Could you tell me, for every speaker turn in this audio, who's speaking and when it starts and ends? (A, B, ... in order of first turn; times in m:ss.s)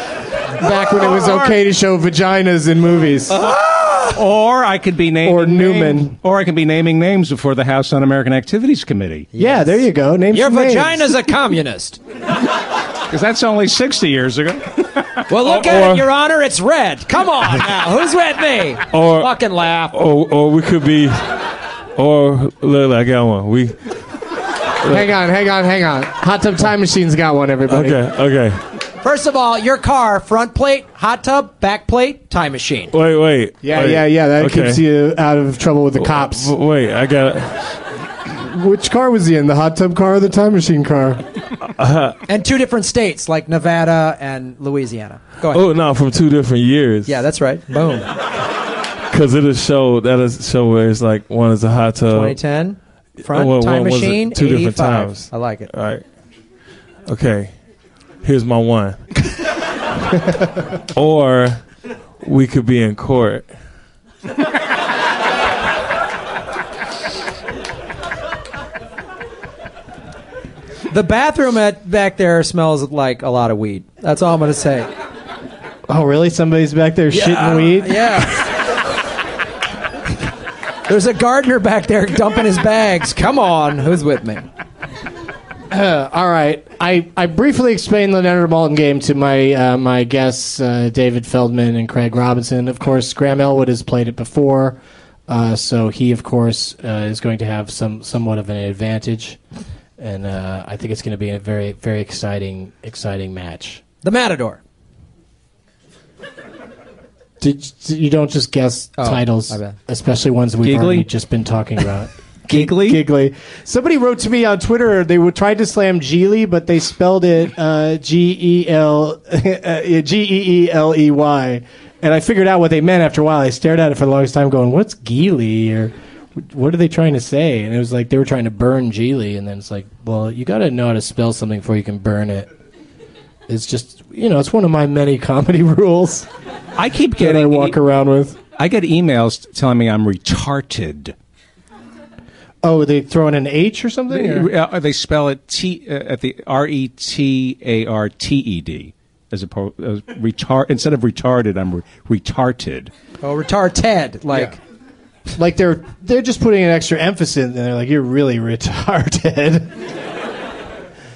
0:00.6-0:03.4 A
0:01.1-0:01.5 B
0:03.3-0:04.2 B
0:04.1-0:09.3 C
0:05.2-0:06.2 A
0:09.3-0:12.0 B
0:09.4-0:11.1 A
0:13.1-0:15.2 C
0:15.3-0:20.0 B
0:15.4-0:16.1 D
0:18.9-0:19.3 D
0:19.9-0:21.4 D
0:22.0-0:23.8 D
0:24.8-0:28.0 A
0:27.7-0:28.6 D
0:29.0-0:32.9 B
0:32.9-0:34.8 D
0:33.6-0:36.5 A
0:36.0-0:37.8 D
0:38.3-0:41.2 A
0:41.7-0:42.2 D
0:42.3-0:45.6 B
0:45.5-0:47.2 D
0:47.1-0:48.1 B
0:49.1-0:52.4 D
0:52.1-0:55.7 B
0:53.2-0:56.0 D
0:57.0-0:57.5 D
0:58.2-0:59.0 D
1:00.9-1:01.6 D
1:02.2-1:03.5 D
1:10.9-1:14.9 B
1:15.9-1:18.2 A
1:17.1-1:18.4 B
1:20.9-1:24.5 B
1:25.7-1:39.4 A
1:40.0-1:43.8 A
1:44.0-1:44.6 B
1:47.4-2:12.5 A
1:49.0-1:49.8 B
1:50.6-1:51.1 C
1:52.5-1:53.0 C
2:13.5-2:16.3 A
2:16.8-2:17.8 C
2:17.2-2:18.4 A
2:18.6-2:21.1 C
2:22.6-2:24.5 A
2:24.1-2:32.9 C
2:33.2-2:34.6 B
2:35.4-2:39.7 A